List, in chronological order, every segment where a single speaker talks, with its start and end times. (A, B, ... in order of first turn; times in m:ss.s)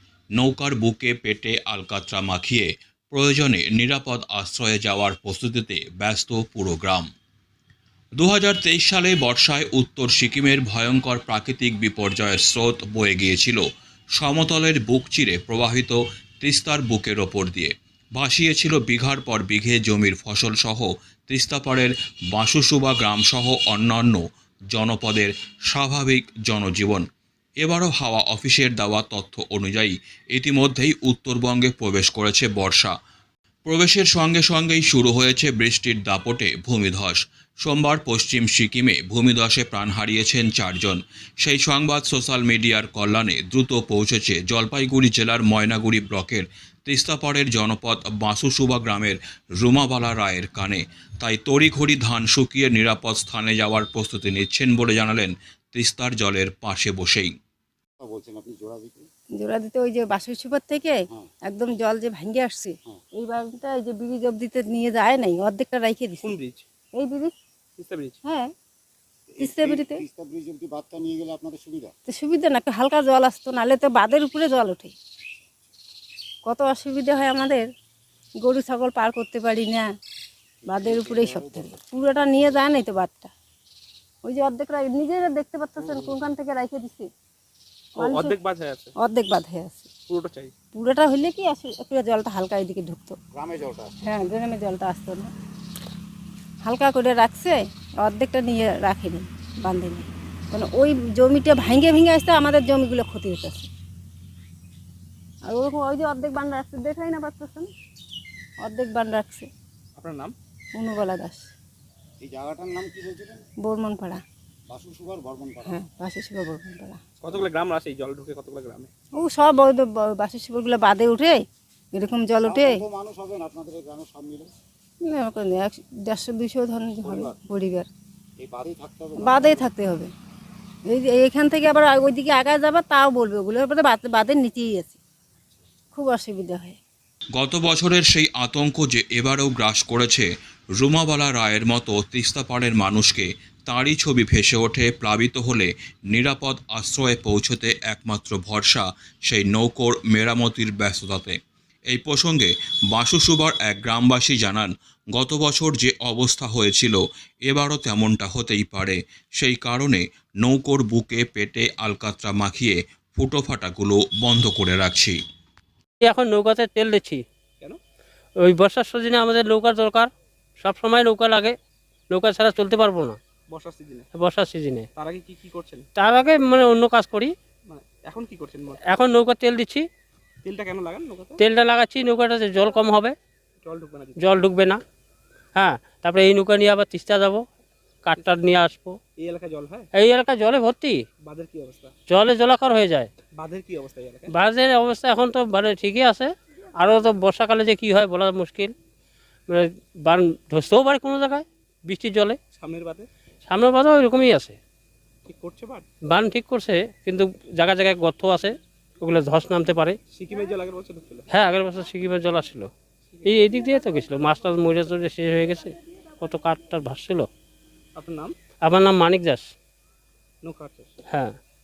0:00.4-0:07.1 A
0:08.2-0:13.6 A
0:14.2-0:27.1 A
0:27.6-0:32.9 A
0:33.7-0:57.3 A
0:58.0-0:59.1 B
0:59.4-1:06.3 C
1:06.2-1:06.6 D
1:07.0-1:07.3 C
1:07.8-1:08.2 D
1:08.2-1:08.5 C
1:09.3-1:11.9 B
1:09.4-1:10.0 C
1:12.1-1:14.9 C
1:16.5-1:17.7 C
1:18.4-1:19.9 C
1:20.6-1:21.8 B
1:20.7-1:23.3 C
1:24.2-1:27.1 C
1:28.0-1:28.3 C
1:28.0-1:28.9 D
1:29.0-1:29.9 C
1:30.1-1:30.5 D
1:30.8-1:33.2 C
1:33.3-1:34.0 B
1:34.0-1:35.3 C
1:36.6-1:43.7 C
1:45.4-1:47.7 C
1:48.6-1:49.5 C
1:50.0-1:50.4 D
1:50.8-1:51.5 C
1:52.2-1:53.4 B
1:53.6-1:54.2 C
1:54.7-1:55.8 B
1:55.6-1:57.0 C
1:57.2-1:58.9 D
1:59.2-2:01.4 C
2:01.9-2:02.8 C
2:02.4-2:04.5 B
2:05.0-2:07.9 C
2:07.0-2:07.4 B
2:08.4-2:09.7 B
2:09.2-2:10.1 C
2:10.9-2:15.0 C
2:15.9-2:16.8 C
2:17.4-2:31.4 A
2:31.9-2:45.2 A
2:46.0-2:47.2 E
2:48.4-2:51.6 E
2:52.1-2:53.2 E
2:53.5-2:54.1 D
2:54.1-2:54.9 E
2:55.0-2:55.9 D
2:56.0-2:57.3 E
2:57.7-2:58.8 D
2:58.9-2:59.9 E
3:00.4-3:01.4 D
3:01.4-3:03.2 E
3:03.6-3:04.4 D
3:04.2-3:04.8 E
3:05.6-3:07.4 E
3:08.0-3:09.0 E
3:09.2-3:09.9 D
3:10.0-3:11.0 E
3:11.2-3:11.9 D
3:12.1-3:13.1 E
3:13.3-3:14.3 D
3:14.3-3:18.7 E
3:19.5-3:22.4 E
3:22.5-3:23.1 D
3:23.5-3:24.6 E
3:25.3-3:25.9 D
3:26.1-3:30.0 E
3:30.1-3:31.3 D
3:31.3-3:32.7 E
3:33.1-3:33.6 D
3:33.2-3:37.3 E
3:38.0-3:38.3 D
3:38.6-3:39.5 E
3:40.4-3:41.0 D
3:41.1-3:41.4 E